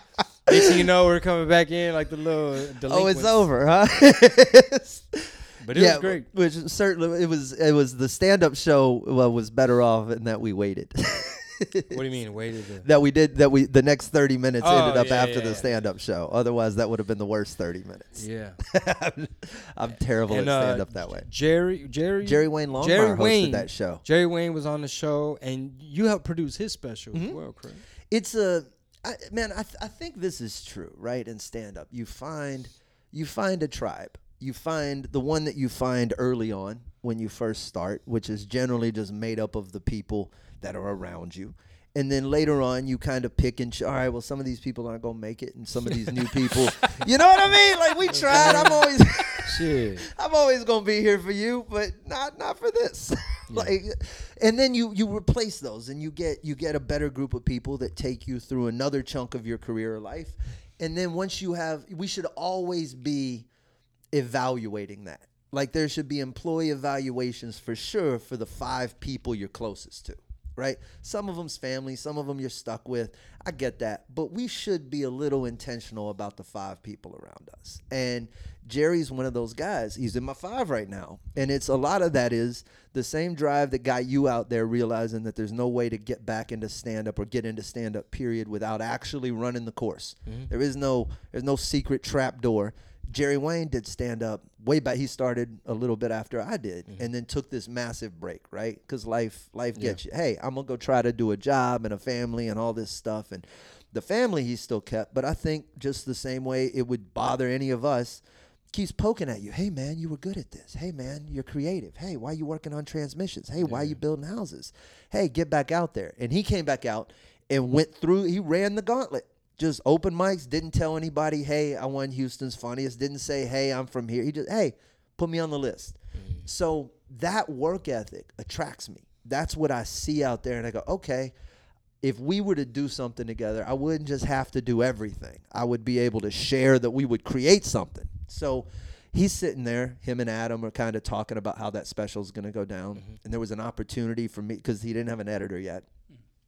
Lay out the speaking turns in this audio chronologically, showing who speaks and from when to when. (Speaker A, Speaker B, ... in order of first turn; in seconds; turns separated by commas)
Speaker A: 0.5-3.5, Speaker B: 0.5-0.8, Speaker B: 2.9-12.0, Speaker A: 5.6-6.3, Speaker A: 11.9-12.9, Speaker B: 12.8-21.3, Speaker A: 14.6-15.7, Speaker A: 18.2-18.6, Speaker A: 20.3-27.8, Speaker B: 22.2-24.0, Speaker B: 27.1-27.4, Speaker B: 28.1-63.5, Speaker A: 48.3-48.8, Speaker A: 49.4-50.1, Speaker B: 64.1-131.3, Speaker A: 99.8-100.0, Speaker A: 113.6-114.0, Speaker A: 126.2-126.5, Speaker B: 132.0-145.9